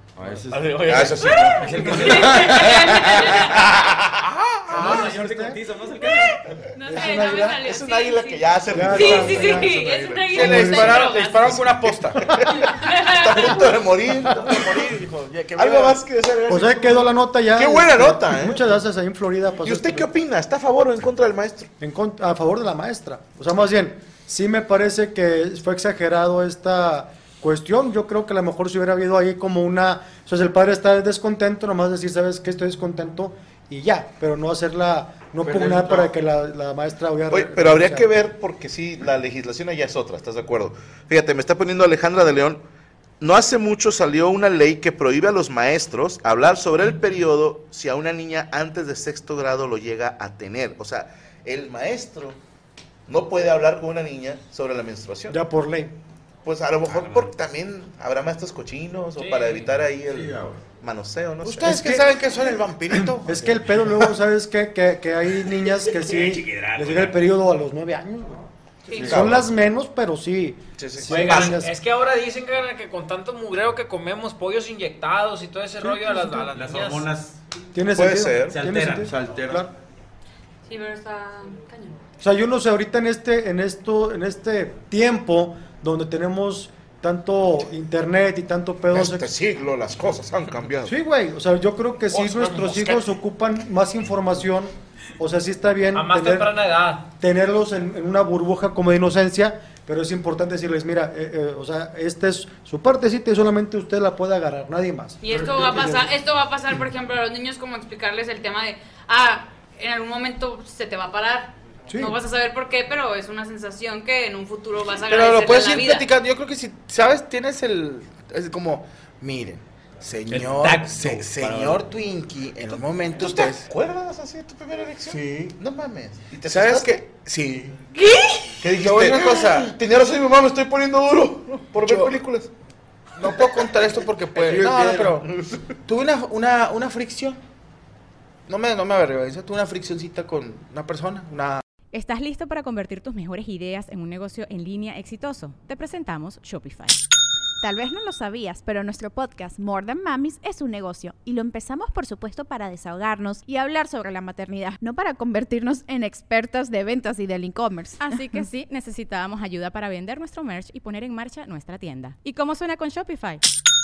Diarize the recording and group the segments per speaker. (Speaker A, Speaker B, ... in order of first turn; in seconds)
Speaker A: 0.1-1.1, 35.4-36.1, 60.0-60.6, 68.9-69.3, 79.0-79.7, 92.2-92.8, 105.3-106.0, 134.3-135.3
Speaker B: 0.5-3.1, 10.3-12.4, 14.2-16.0, 61.4-63.7, 115.1-123.7, 125.1-125.6, 126.5-127.8, 128.6-129.7, 131.8-132.2, 133.2-135.3, 135.8-137.4, 138.5-141.6
Speaker C: 0.8-2.3, 3.2-4.8, 7.6-14.8, 15.6-18.8, 19.6-21.7, 37.3-42.6, 43.2-52.4, 53.1-55.4, 56.4-61.8, 69.0-69.5, 70.8-71.6, 77.9-78.6, 88.9-90.9, 123.1-127.0, 128.6-132.5
Speaker D: 1.1-3.8, 6.7-11.6, 12.5-13.8, 68.8-69.1, 80.7-82.0, 105.2-116.0, 127.9-128.5
Speaker E: 1.6-2.8, 4.7-6.6, 56.9-57.3, 66.0-67.2, 76.5-77.4, 78.5-79.1, 120.3-121.8
Speaker F: 4.7-5.6, 6.8-7.6, 8.7-9.8, 16.5-20.1, 21.8-38.1, 55.3-55.9, 61.6-62.1, 62.9-68.4, 69.0-71.7, 75.8-76.5, 77.7-79.7, 82.2-89.3, 90.8-96.5, 97.2-106.0, 111.9-112.1
Speaker G: 59.2-59.7, 71.1-77.1, 95.9-97.0
Speaker H: 141.9-147.0, 158.0-163.4
Speaker I: 147.6-158.4